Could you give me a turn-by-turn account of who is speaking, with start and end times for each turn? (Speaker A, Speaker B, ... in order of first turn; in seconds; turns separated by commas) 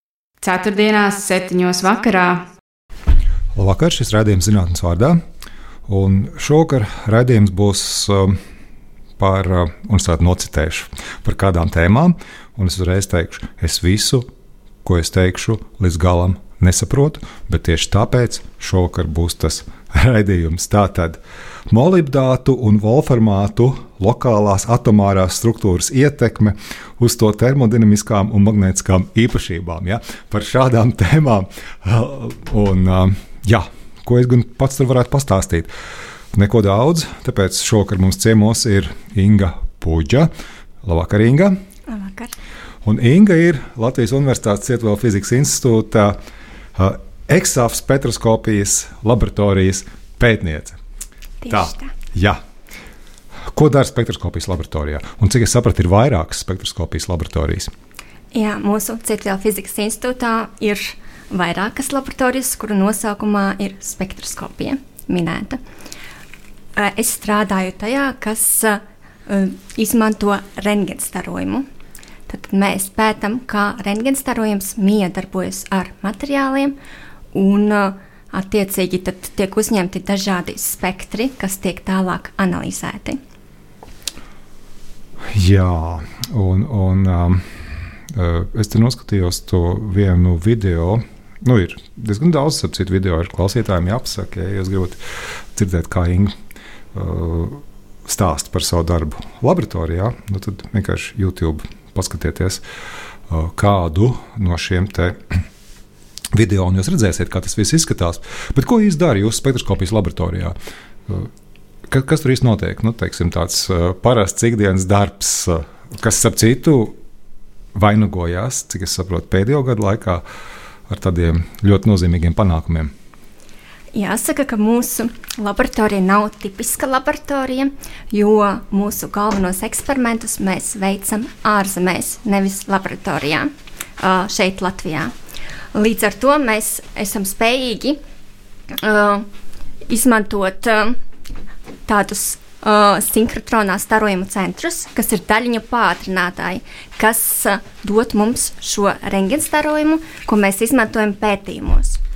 Speaker A: 0.4-2.5, Speaker B: 3.5-5.2, Speaker B: 5.9-8.4, Speaker B: 9.2-14.3, Speaker B: 14.8-35.7, Speaker B: 36.3-40.3, Speaker B: 40.8-41.6, Speaker C: 41.9-42.3, Speaker B: 42.8-46.2, Speaker B: 46.8-50.8, Speaker C: 51.4-51.9, Speaker B: 51.5-52.4, Speaker B: 53.5-57.7, Speaker C: 58.3-65.6, Speaker C: 66.8-71.6, Speaker C: 72.3-76.7, Speaker C: 77.3-83.2, Speaker B: 85.3-96.3, Speaker B: 96.9-102.6, Speaker B: 103.3-105.4, Speaker B: 106.3-110.5, Speaker B: 111.9-117.0, Speaker B: 117.7-120.2, Speaker B: 120.9-122.9, Speaker C: 123.9-135.1, Speaker C: 135.7-138.0, Speaker C: 138.7-139.3, Speaker C: 139.9-141.0, Speaker C: 141.9-152.0